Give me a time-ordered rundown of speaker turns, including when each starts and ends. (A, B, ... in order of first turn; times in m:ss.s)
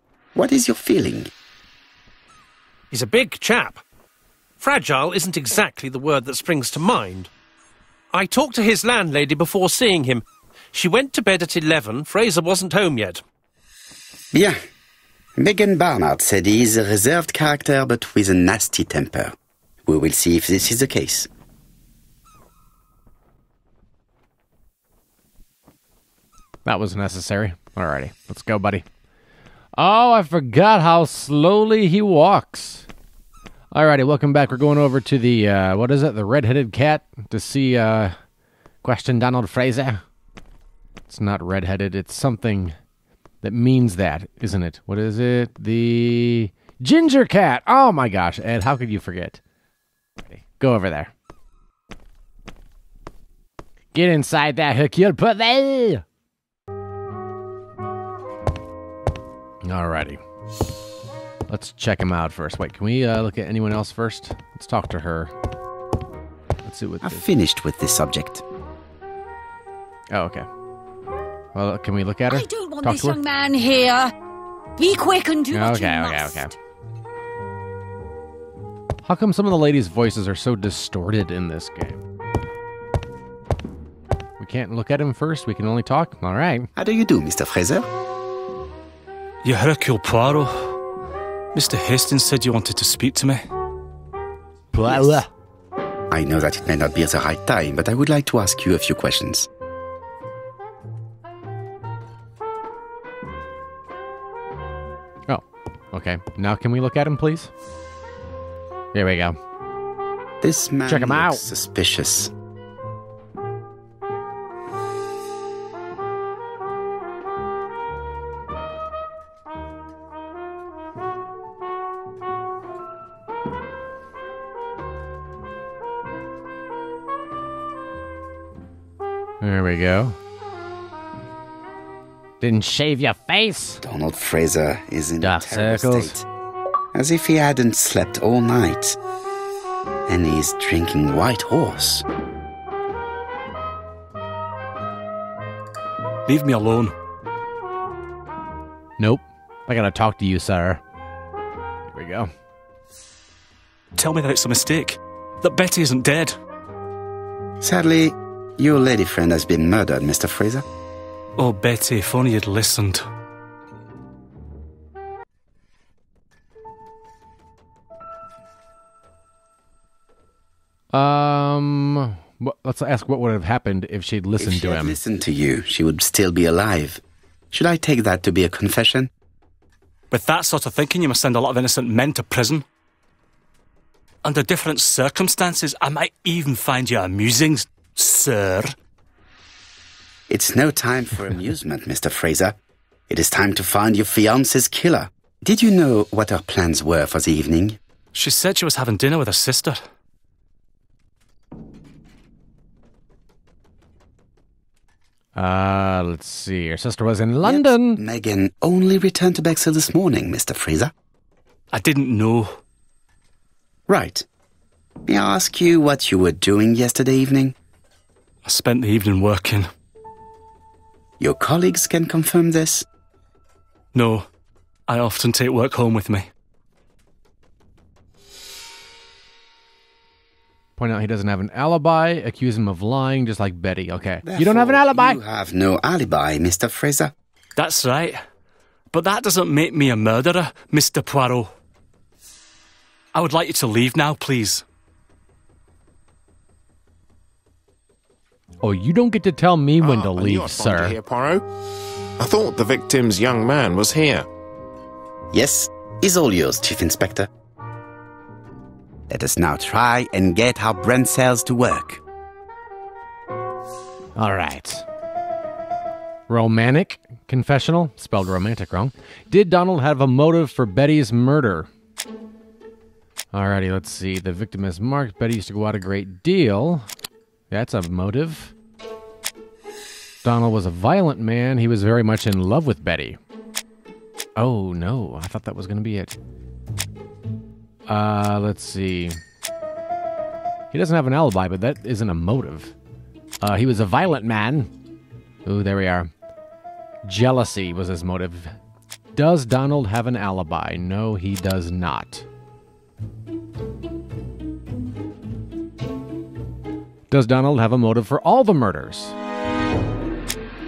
0:00.3-0:01.3 A
0:02.9-0:03.8 B
0:04.6-0:07.3 B
0:08.1-0:13.2 B
0:15.4-0:19.3 A
0:19.8-0:21.3 A
0:26.6-0:28.8 C
0:29.8-0:32.9 C
0:33.7-0:38.1 C
0:38.8-0:40.0 C
0:41.1-0:42.7 C
0:43.4-0:49.4 C
0:50.2-0:51.1 C
0:53.9-0:56.0 C
0:59.6-1:00.2 C
1:01.5-1:05.3 C
1:06.6-1:07.2 C
1:07.0-1:08.4 A
1:10.1-1:10.5 C
1:11.5-1:13.2 C
1:12.3-1:14.1 D
1:14.8-1:16.5 D
1:15.5-1:16.5 C
1:19.0-1:22.0 C
1:24.4-1:26.7 C
1:26.8-1:27.9 A
1:29.4-1:30.7 E
1:31.5-1:33.4 E
1:34.7-1:35.3 C
1:34.8-1:35.2 A
1:36.1-1:39.5 A
1:45.3-1:47.5 C
1:48.9-1:49.4 C
1:50.4-1:52.3 A
1:50.8-1:51.4 C
2:09.4-2:10.2 C
2:12.4-2:13.8 C
2:13.8-2:16.2 A
2:15.2-2:16.2 C
2:16.9-2:19.0 A
2:20.1-2:22.0 A
2:26.2-2:26.9 E
2:29.0-2:30.8 C
2:31.9-2:32.3 C
2:34.0-2:36.4 E
2:37.6-2:40.6 A
2:41.4-2:43.0 E
2:50.9-2:55.0 C
2:54.4-2:59.1 A
3:00.1-3:02.6 E
3:04.2-3:08.8 E
3:10.3-3:12.6 A
3:13.1-3:17.8 A
3:18.1-3:19.8 E
3:25.3-3:28.0 C
3:27.4-3:30.9 A
3:31.7-3:32.6 E
3:33.9-3:34.2 A
3:35.1-3:37.5 A
3:38.4-3:39.7 E
3:41.2-3:42.8 A
3:43.9-3:44.3 E
3:44.9-3:46.3 E
3:50.8-3:55.2 C
3:54.2-3:57.1 A
3:57.6-3:58.2 E
3:58.9-4:01.5 E
4:03.1-4:04.6 E
4:08.6-4:10.9 C
4:09.8-4:11.4 F
4:12.2-4:14.3 F
4:15.3-4:17.3 A
4:19.1-4:22.0 A
4:24.2-4:24.8 C
4:26.3-4:31.7 C
4:33.3-4:36.9 C
4:37.5-4:38.5 C
4:40.2-4:43.2 C
4:44.4-4:46.2 C
4:47.9-4:49.2 C
4:50.7-4:52.7 C
4:53.4-4:54.7 C
4:55.4-4:56.1 C
4:57.0-4:58.5 C
4:59.1-5:02.2 C
5:07.1-5:09.1 C